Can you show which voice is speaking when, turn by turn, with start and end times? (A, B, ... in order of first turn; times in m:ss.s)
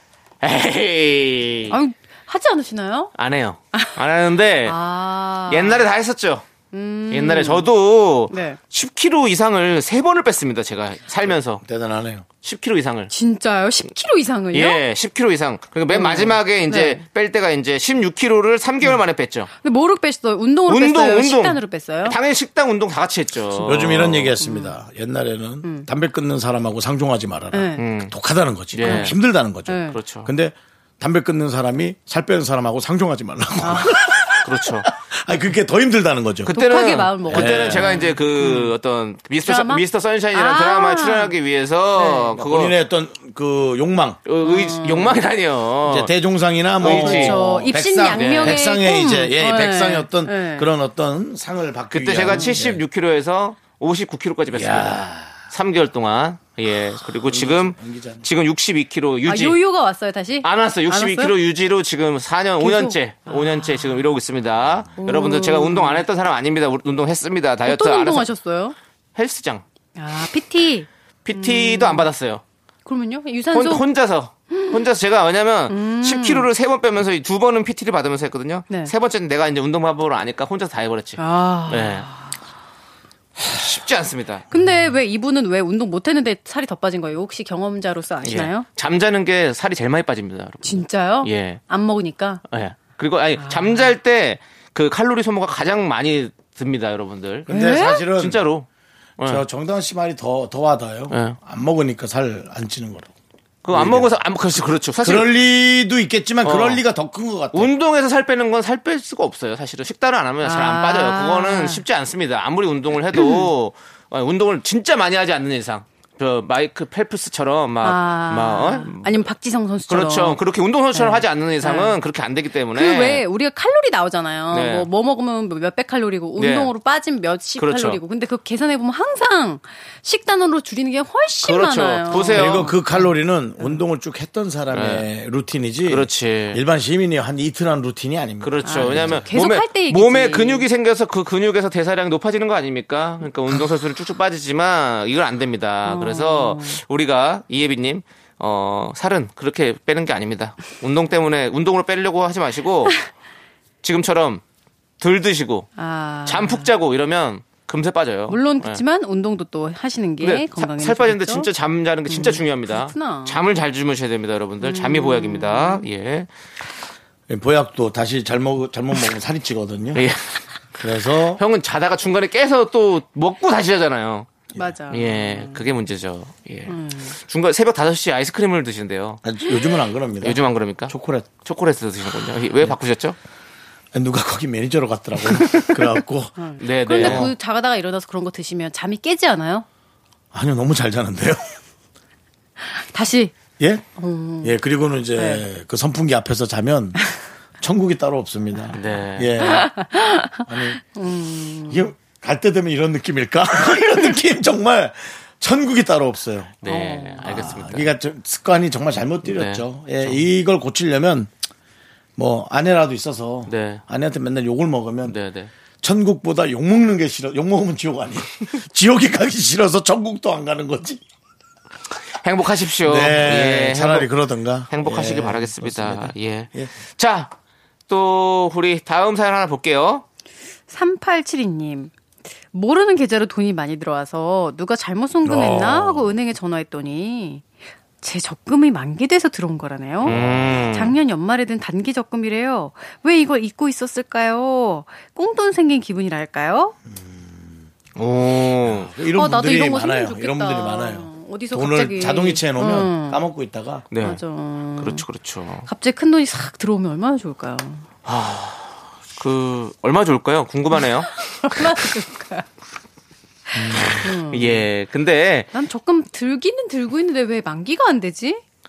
0:00.4-0:01.8 A
0:01.7-0:03.1 B
0:03.1-0:04.8 A
0:04.6-0:05.9 B
0:05.5-0:06.4 A
0:06.7-0:07.7 B
0:07.1-0:11.6 A
0:08.3-0:08.6 B
0:11.6-0:12.2 C
0:12.4-0:13.1 A
0:13.1-0:14.8 B
0:14.5-0:19.5 A
0:15.9-0:17.0 B
0:19.6-0:22.2 B
0:20.7-0:24.4 A
0:23.6-0:36.5 C
0:24.4-0:24.8 B
0:27.5-0:27.8 B
0:27.8-0:28.1 A
0:28.7-0:29.2 A
0:28.8-0:29.2 B
0:29.7-0:30.0 B
0:29.9-0:30.3 A
0:33.6-0:34.0 B
0:34.4-0:34.9 A
0:36.4-0:42.8 A
0:36.5-0:38.7 B
0:37.3-0:38.0 C
0:39.4-0:41.3 B
0:42.0-0:42.3 B
0:42.4-0:44.2 C
0:44.2-0:46.1 A
0:44.4-0:45.2 B
0:45.8-0:52.8 C
0:46.8-0:47.4 A
0:46.8-0:50.7 B
0:48.1-0:48.6 A
0:51.9-0:59.6 A
0:52.3-0:52.6 B
0:54.5-0:55.4 C
0:57.2-0:58.3 C
0:59.2-1:01.3 B
1:00.4-1:08.3 A
1:02.6-1:04.1 B
1:05.0-1:06.0 B
1:07.6-1:08.8 B
1:09.2-1:09.6 A
1:10.0-1:12.1 B
1:11.2-1:12.4 A
1:12.8-1:13.8 B
1:13.5-1:22.1 A
1:14.5-1:14.8 B
1:15.7-1:16.5 B
1:21.2-1:22.3 B
1:23.4-1:24.5 A
1:24.5-1:28.6 B
1:28.2-1:31.6 A
1:30.6-1:32.4 B
1:32.5-1:38.7 A
1:33.4-1:33.9 B
1:37.5-1:38.4 C
1:37.5-1:38.1 B
1:39.2-1:43.1 C
1:41.1-1:41.4 A
1:43.6-1:45.3 A
1:43.7-1:44.1 C
1:45.0-1:47.7 C
1:46.4-1:46.8 A
1:47.5-1:59.3 A
1:50.4-1:51.8 B
1:53.1-1:53.5 B
1:57.8-2:00.4 B
1:59.9-2:03.2 A
2:00.9-2:02.0 B
2:02.7-2:13.1 B
2:04.5-2:04.9 A
2:06.4-2:06.7 A
2:07.6-2:08.0 A
2:11.4-2:12.7 A
2:12.3-2:19.3 C
2:14.7-2:15.0 A
2:15.8-2:16.6 A
2:18.4-2:33.0 A
2:18.6-2:20.6 B
2:25.8-2:26.8 B
2:33.8-2:34.4 A
2:35.0-2:35.7 A
2:35.8-2:36.7 B
2:36.2-2:38.8 A
2:38.3-2:41.5 B
2:40.2-2:46.3 A
2:42.1-2:43.4 B
2:44.6-2:45.8 B
2:47.3-2:50.0 C
2:49.9-2:50.4 A
2:50.8-2:51.4 C
2:51.3-2:54.3 A
2:54.5-2:55.7 B
2:54.9-2:59.2 A
2:56.7-2:57.1 B
2:59.2-3:01.3 C
3:00.2-3:03.2 A
3:03.9-3:06.4 C
3:05.3-3:05.8 A
3:06.4-3:09.6 B
3:06.6-3:07.3 A
3:06.9-3:07.3 C
3:10.3-3:11.5 C
3:12.7-3:13.3 B
3:13.6-3:13.8 C
3:14.0-3:14.5 B
3:14.4-3:17.0 C
3:15.2-3:15.4 B
3:17.6-3:19.7 C
3:18.7-3:19.4 A
3:19.4-3:21.9 B
3:20.4-3:20.8 C
3:21.7-3:26.6 C
3:26.6-3:27.9 A
3:26.7-3:27.3 B
3:27.2-3:31.3 C
3:29.2-3:30.2 A
3:32.2-3:35.2 C
3:33.5-3:33.8 A
3:35.0-3:35.5 A
3:35.8-3:41.0 C
3:42.2-3:44.1 A
3:42.8-3:46.7 C
3:44.7-3:47.3 A
3:47.9-3:50.0 A
3:50.7-3:51.9 B
3:52.5-3:57.4 B
3:55.2-3:56.1 C
3:58.0-4:06.7 B
4:00.0-4:00.9 A
4:00.0-4:00.6 C
4:06.9-4:07.7 C
4:08.0-4:08.9 A
4:08.6-4:13.9 C
4:09.1-4:13.2 B
4:13.9-4:14.2 A
4:14.0-4:15.0 B
4:14.8-4:15.7 A
4:15.6-4:17.8 B
4:18.0-4:21.1 A
4:21.2-4:22.5 B
4:23.5-4:24.6 B
4:23.5-4:24.0 C
4:23.8-4:25.5 A
4:25.5-4:28.4 B